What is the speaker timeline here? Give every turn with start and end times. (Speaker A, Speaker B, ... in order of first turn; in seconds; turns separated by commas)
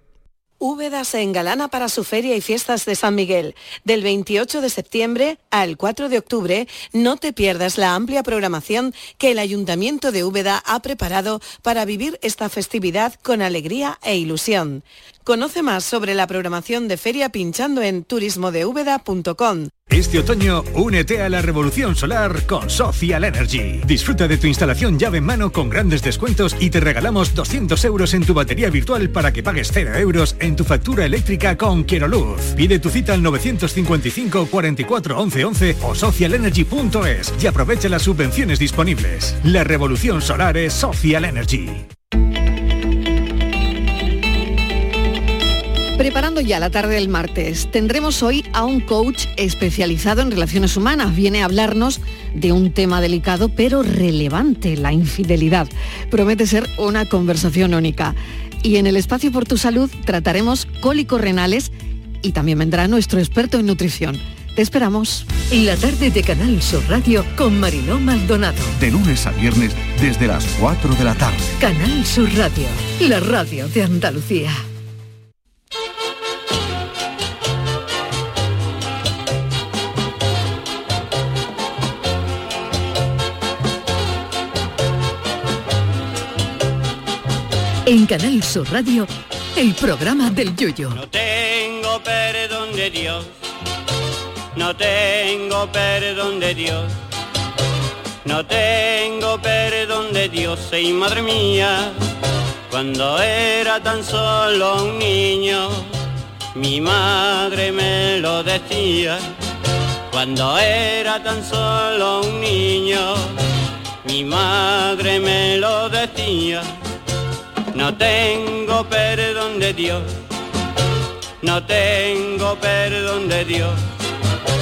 Speaker A: 0.6-19.7, Speaker B: 19.9-41.9, Speaker C: 46.0-61.7, Speaker C: 62.2-65.4, Speaker D: 65.4-68.8, Speaker E: 68.8-71.6, Speaker D: 71.6-74.6, Speaker D: 87.8-91.0, Speaker F: 90.9-93.3, Speaker F: 94.5-96.9, Speaker F: 98.2-102.0, Speaker F: 102.7-105.9, Speaker F: 106.5-109.2, Speaker F: 110.1-113.4, Speaker F: 114.0-116.7, Speaker F: 117.7-120.1, Speaker F: 121.4-123.8